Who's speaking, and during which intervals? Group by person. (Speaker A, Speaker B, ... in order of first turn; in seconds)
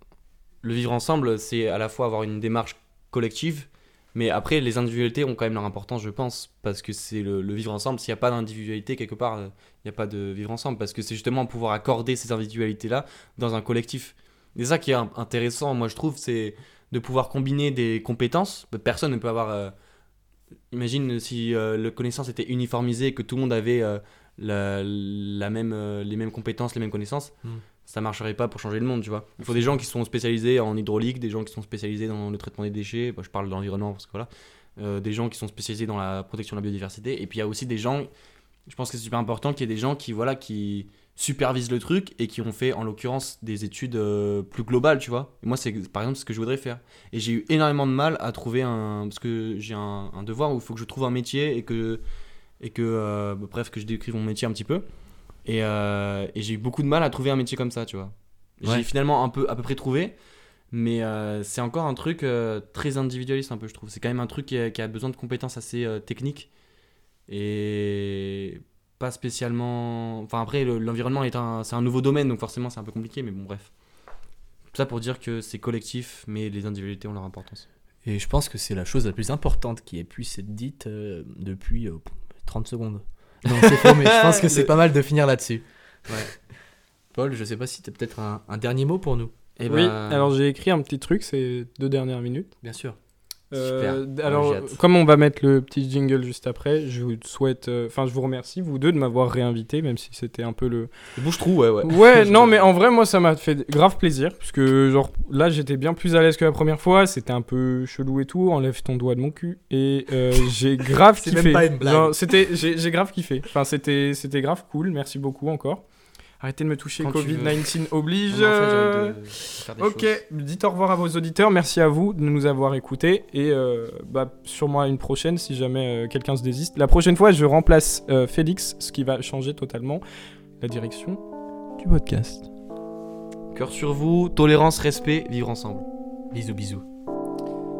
Speaker A: 0.6-19.7, 20.7-27.3, 27.8-38.1, 38.7-52.0, 52.6-54.8, 55.4-60.1, 60.7-66.5, 67.3-73.7, 74.7-77.6, 83.5-84.7, 89.6-90.3, 93.6-94.8, 101.2-102.7, 117.0-117.6, 118.3-120.2, 133.5-135.8
Speaker B: 78.0-86.3, 87.1-89.3, 92.6-93.0, 111.2-112.1, 131.8-132.5, 136.3-136.8
Speaker C: 89.7-92.5, 93.5-100.9, 101.8-115.8, 116.4-130.0, 130.6-131.2